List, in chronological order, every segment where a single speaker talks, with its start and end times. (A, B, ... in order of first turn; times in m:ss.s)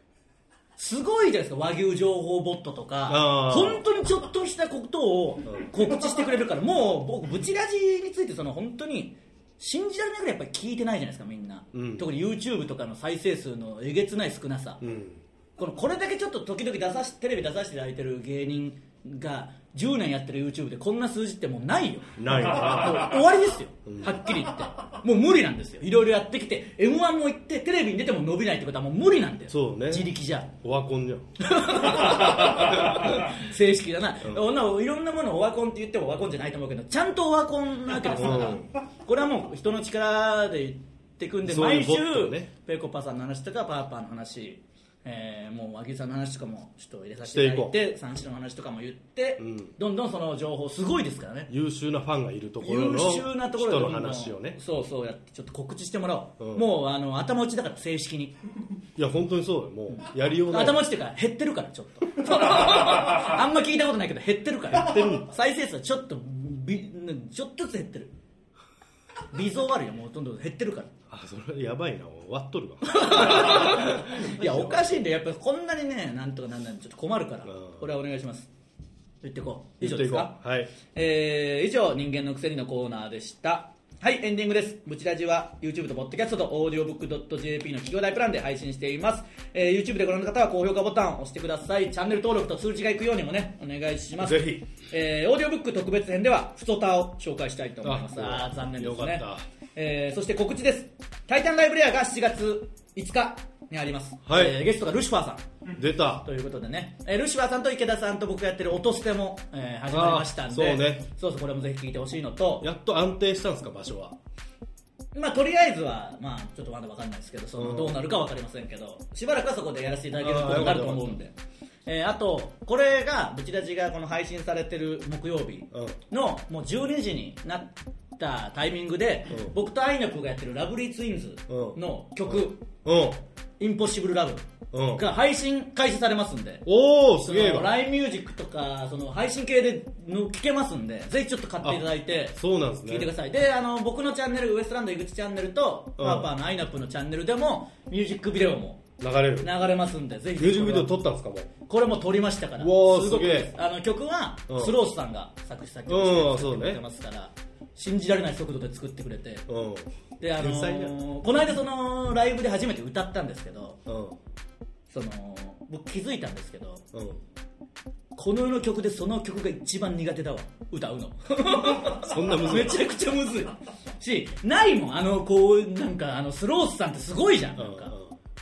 0:00.8-0:14.8 A
0:03.1-0:03.8 B
0:11.7-0:12.1 B
0:14.8-0:15.2 B
0:15.6-0:30.5 A
0:22.2-0:23.2 B
0:23.9-0:24.2 B
0:29.5-0:33.2 B
0:31.4-0:51.5 A
0:38.1-0:38.7 B
0:41.4-0:42.5 B
0:47.2-0:47.8 B
0:49.4-0:49.7 B
0:51.5-0:54.6 B
0:52.6-0:58.4 A
0:56.4-0:56.7 B
0:59.0-1:00.8 B
0:59.9-1:08.1 A
1:04.7-1:05.2 B
1:09.3-1:10.9 A
1:11.1-1:15.0 B
1:12.8-1:18.5 A
1:17.5-1:17.8 B
1:19.2-1:20.4 A
1:19.8-1:20.7 B
1:20.9-1:45.5 A
1:34.2-1:34.7 B
1:37.8-1:39.4 B
1:44.2-1:44.6 B
1:45.8-1:46.2 B
1:46.2-1:52.7 A
1:49.9-1:51.0 B
1:52.6-1:54.2 B
1:55.1-2:01.3 A
1:57.6-1:58.0 B
2:00.2-2:01.1 B
2:01.9-2:12.6 A
2:05.7-2:06.0 B
2:11.5-2:13.2 B
2:13.6-2:16.6 A
2:14.7-2:15.0 B
2:16.7-2:17.8 B
2:17.2-2:28.9 A
2:21.6-2:23.1 B
2:26.0-2:26.3 B
2:29.0-2:29.5 B
2:29.4-2:30.9 A
2:30.4-2:31.5 B
2:31.7-2:39.5 A
2:32.6-2:33.5 B
2:34.5-2:34.8 B
2:35.9-2:36.8 B
2:39.5-2:41.0 B
2:40.2-2:43.8 A
2:43.9-2:44.2 B
2:44.9-2:46.9 A
2:46.9-2:47.2 B
2:48.1-2:58.0 A
2:51.8-2:52.9 B
2:57.6-2:58.2 B